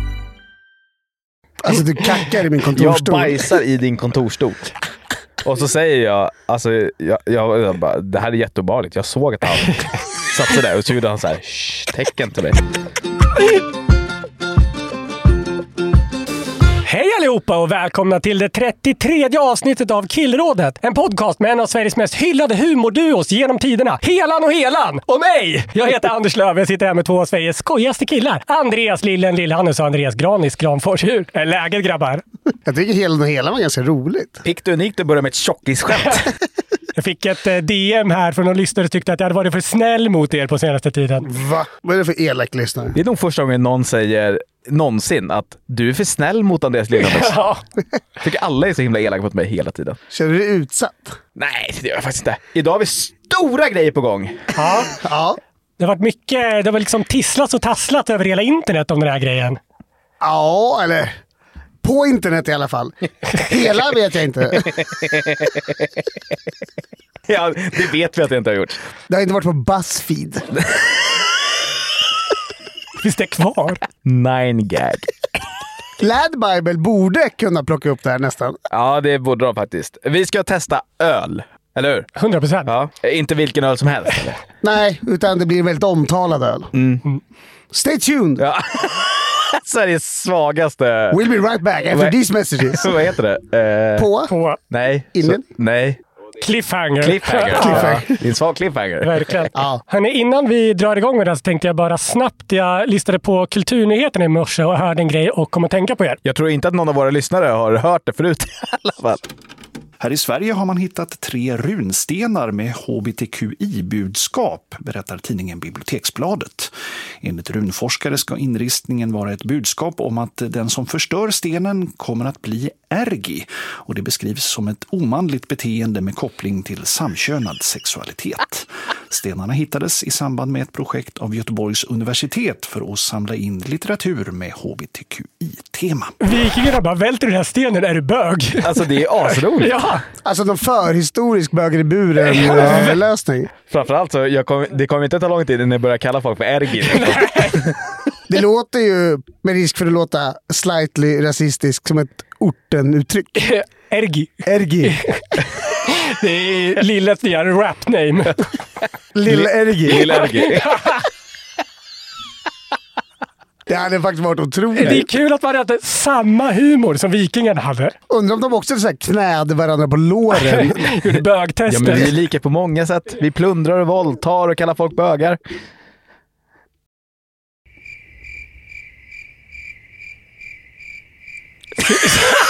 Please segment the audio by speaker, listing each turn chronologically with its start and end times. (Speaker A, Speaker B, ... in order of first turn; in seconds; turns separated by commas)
Speaker A: 1.6-3.4, Speaker B: 2.8-4.7, Speaker B: 5.4-12.6, Speaker C: 16.8-32.2, Speaker A: 32.6-34.4, Speaker B: 34.4-36.3, Speaker C: 37.0-41.3, Speaker A: 41.2-43.0, Speaker B: 42.9-47.4, Speaker C: 47.0-47.6, Speaker B: 48.2-50.0, Speaker A: 50.1-51.2, Speaker B: 51.4-54.4, Speaker C: 54.5-54.9, Speaker A: 55.0-55.4, Speaker C: 55.8-59.6, Speaker A: 60.2-61.1, Speaker A: 61.8-64.7, Speaker B: 64.7-65.7, Speaker B: 67.3-68.8, Speaker A: 69.1-70.5, Speaker C: 73.0-73.8, Speaker B: 74.0-75.3, Speaker A: 76.0-78.6, Speaker B: 78.7-82.1, Speaker C: 82.2-82.7, Speaker B: 82.7-84.4, Speaker A: 84.6-86.7, Speaker B: 86.7-87.0, Speaker A: 87.7-88.4, Speaker B: 88.4-91.2, Speaker A: 91.1-93.0, Speaker B: 92.7-94.1, Speaker A: 94.0-94.3, Speaker C: 94.3-94.6, Speaker B: 94.7-96.0, Speaker A: 95.1-95.4, Speaker C: 96.4-98.0, Speaker B: 97.0-99.1, Speaker A: 97.6-98.1, Speaker C: 99.0-106.2, Speaker A: 99.5-99.8, Speaker B: 106.2-109.2, Speaker D: 110.0-136.2, Speaker C: 136.2-138.7, Speaker B: 138.6-139.8, Speaker C: 139.6-140.0, Speaker A: 140.2-143.5, Speaker C: 142.3-142.9, Speaker B: 142.6-142.9, Speaker B: 143.7-147.7, Speaker C: 146.8-147.7, Speaker A: 148.3-153.5, Speaker C: 153.4-155.2, Speaker A: 154.4-155.0, Speaker C: 155.8-158.4, Speaker A: 159.1-160.2, Speaker B: 159.2-160.9, Speaker C: 160.1-161.0, Speaker A: 163.7-165.1, Speaker C: 164.8-167.9, Speaker A: 168.1-170.9, Speaker C: 170.3-172.1, Speaker B: 171.7-175.4